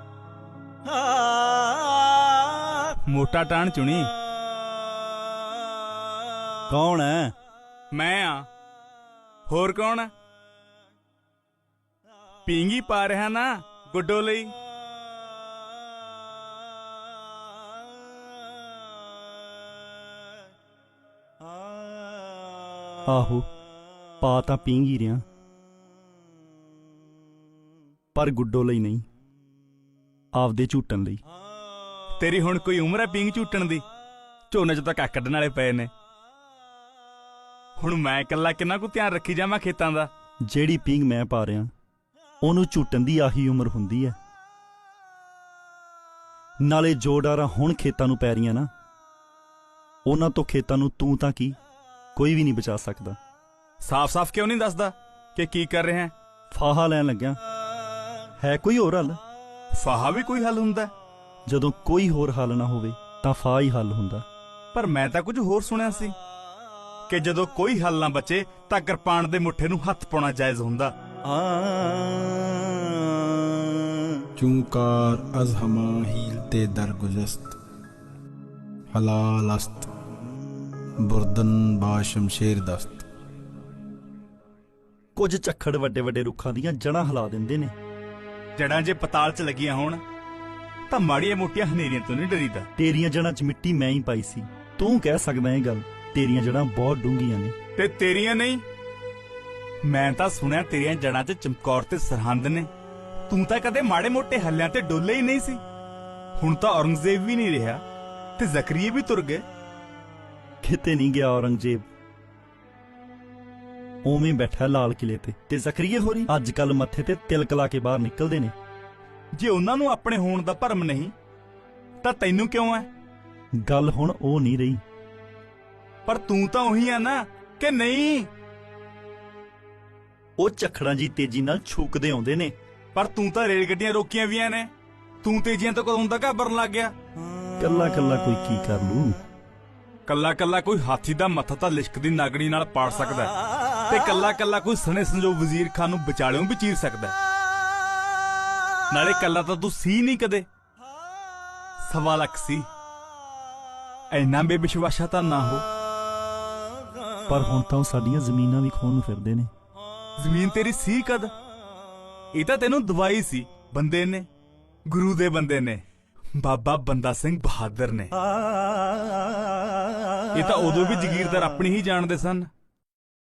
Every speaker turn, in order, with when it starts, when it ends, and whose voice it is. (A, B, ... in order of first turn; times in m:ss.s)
0:03.1-0:04.1 A
0:06.7-0:07.3 B
0:07.9-0:08.4 A
0:09.5-0:10.1 A
0:12.4-0:14.5 A
0:23.1-0:23.5 B
0:24.2-0:25.2 B
0:28.1-0:29.0 B
0:30.3-0:31.2 B
0:32.2-0:33.8 A
0:34.5-0:35.9 A
0:37.8-0:40.1 A
0:40.5-0:41.7 B
0:42.4-0:44.2 B
0:46.6-0:48.7 B
0:50.0-0:51.6 B
0:52.1-0:53.2 B
0:53.8-0:56.1 A
0:56.5-0:57.4 B
0:58.4-0:59.2 B
0:59.8-1:00.9 A
1:01.5-1:04.2 B
1:04.7-1:06.1 A
1:07.1-1:10.9 A
1:11.3-1:12.9 B
1:14.4-1:17.6 C
1:18.9-1:19.9 C
1:21.0-1:23.1 C
1:25.2-1:27.7 B
1:28.6-1:30.0 A
1:30.9-1:32.7 A
1:32.8-1:37.5 B
1:37.8-1:38.6 A
1:39.8-1:42.7 A
1:43.3-1:45.6 A
1:46.4-1:47.8 A
1:48.4-1:49.4 A
1:50.6-1:51.8 B
1:54.0-1:58.5 B
1:59.3-2:01.1 A
2:02.0-2:02.9 A
2:03.6-2:04.8 B
2:06.0-2:08.3 A
2:10.4-2:12.5 B
2:12.9-2:14.7 A
2:15.2-2:16.9 A
2:17.6-2:19.2 B
2:20.1-2:23.3 A
2:23.9-2:27.1 A
2:28.9-2:30.5 A
2:31.8-2:32.7 A
2:34.1-2:35.6 A
2:37.3-2:39.5 B
2:40.2-2:41.3 A
2:42.3-2:44.3 A
2:44.9-2:45.8 A
2:46.3-2:48.2 A
2:50.3-2:52.5 A